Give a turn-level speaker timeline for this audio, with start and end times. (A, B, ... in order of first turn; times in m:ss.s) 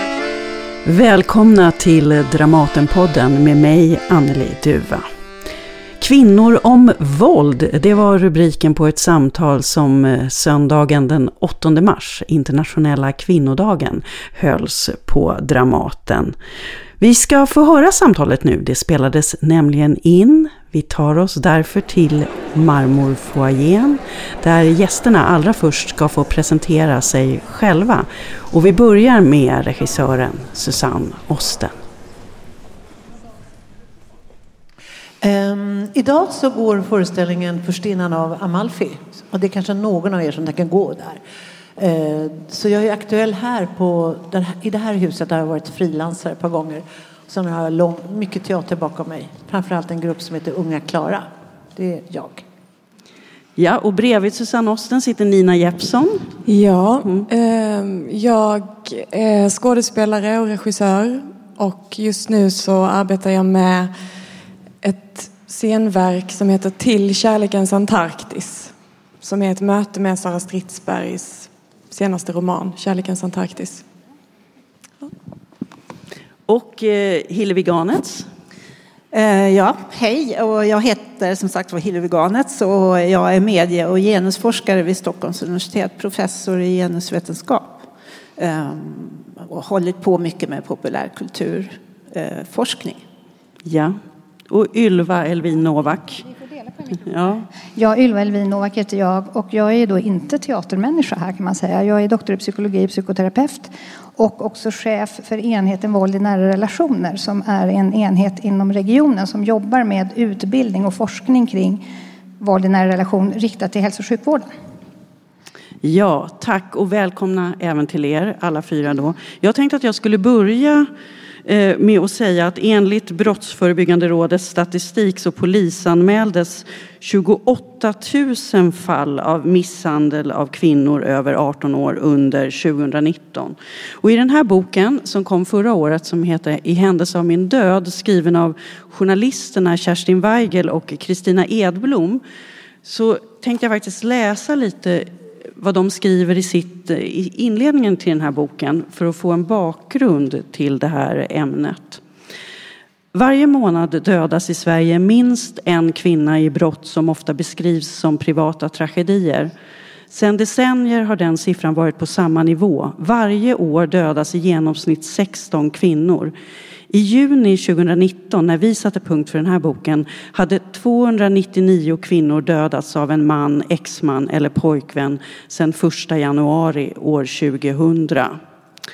0:00.8-0:05.0 A
0:06.0-0:16.4 A
0:17.0-0:31.7 A
0:35.2-0:41.2 B
0:41.8-0:52.4 B
0:53.6-0:56.4 A
0:56.5-1:03.9 C
1:04.8-1:13.8 C
1:16.5-1:18.3 A
1:19.1-1:27.8 D
1:28.4-1:33.0 D
1:33.6-1:34.0 A
1:34.5-1:36.2 A
1:37.0-1:37.5 A
1:37.7-1:51.8 E
1:52.4-1:54.5 E
1:55.8-2:00.9 A
2:01.4-2:22.2 A
2:22.8-2:32.0 A
2:33.1-2:39.5 A
2:40.1-2:46.3 A
2:46.9-2:58.4 A